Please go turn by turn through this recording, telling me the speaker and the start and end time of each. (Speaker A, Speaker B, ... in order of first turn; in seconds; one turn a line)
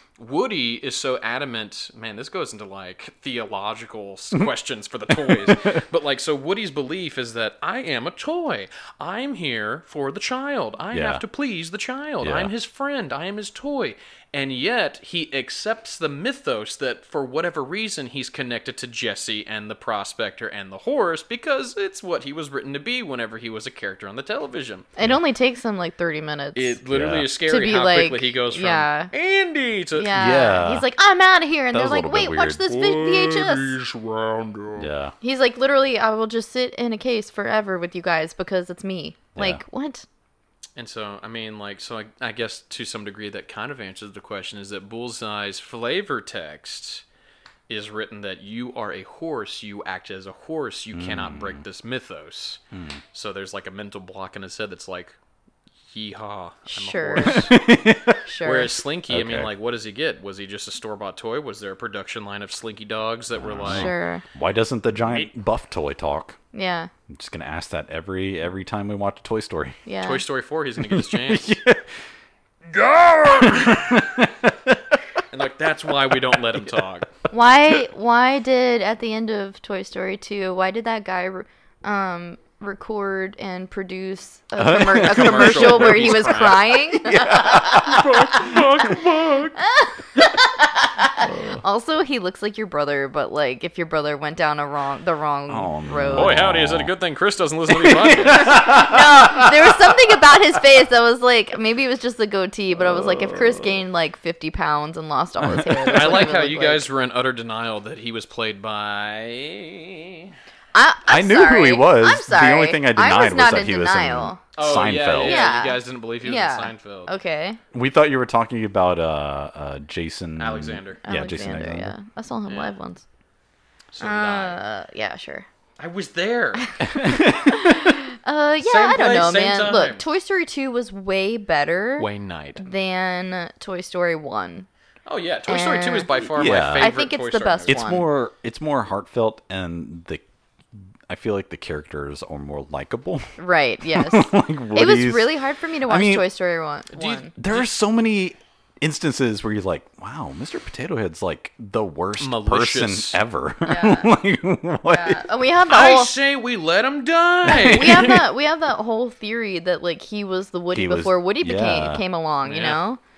Speaker A: 0.2-24.9
Speaker B: 5.1-5.8
Speaker B: 10.9-11.2
Speaker B: 12.2-12.5
Speaker C: 25.0-26.8
Speaker A: 26.5-30.1
Speaker B: 26.9-27.3
Speaker C: 27.5-29.1
Speaker C: 29.9-33.7
Speaker B: 30.1-30.9
Speaker B: 31.7-32.6
Speaker A: 32.7-34.9
Speaker B: 34.8-35.1
Speaker C: 35.2-40.0
Speaker B: 39.4-39.6
Speaker A: 40.8-47.0
Speaker A: 47.7-52.6
Speaker B: 50.9-51.6
Speaker B: 52.7-53.0
Speaker A: 53.1-55.1
Speaker A: 55.9-57.6
Speaker C: 56.7-57.5
Speaker B: 57.2-58.2
Speaker C: 58.2-58.8
Speaker A: 58.4-63.9
Speaker B: 59.1-59.5
Speaker B: 63.4-66.4
Speaker C: 63.6-64.2
Speaker C: 66.5-66.9
Speaker B: 67.1-69.8
Speaker C: 69.8-70.2
Speaker A: 70.0-71.6
Speaker B: 70.8-71.9
Speaker A: 72.7-74.0
Speaker B: 73.2-75.0
Speaker A: 75.3-77.1
Speaker B: 76.1-76.6
Speaker C: 77.3-88.4
Speaker B: 84.6-89.5
Speaker A: 84.9-86.8
Speaker A: 87.8-89.5
Speaker C: 89.5-96.5
Speaker B: 91.1-91.6
Speaker B: 95.5-96.9
Speaker A: 96.1-98.6
Speaker B: 97.7-100.0
Speaker C: 98.2-106.9
Speaker B: 102.8-103.8
Speaker B: 105.4-106.2
Speaker A: 105.9-110.3
Speaker C: 110.7-114.4
Speaker B: 111.1-115.4
Speaker A: 114.5-117.1
Speaker C: 115.1-117.6
Speaker B: 117.7-121.9
Speaker A: 120.4-121.0
Speaker C: 121.0-123.0
Speaker A: 122.5-122.8
Speaker A: 123.9-124.6
Speaker C: 124.0-125.5
Speaker A: 125.8-126.7
Speaker C: 126.6-132.1
Speaker B: 126.8-127.7
Speaker A: 128.6-130.0
Speaker A: 132.0-132.6
Speaker C: 132.6-134.7
Speaker A: 135.1-137.9
Speaker C: 135.5-138.1
Speaker B: 136.3-136.9
Speaker B: 137.7-140.2
Speaker B: 141.1-145.3
Speaker C: 143.4-147.3
Speaker B: 145.8-146.2
Speaker A: 146.9-147.7
Speaker B: 147.4-155.2
Speaker A: 152.2-153.2
Speaker C: 153.6-154.1
Speaker C: 154.9-156.1
Speaker A: 155.7-158.3
Speaker C: 157.5-163.0
Speaker B: 160.7-162.0
Speaker A: 162.4-162.8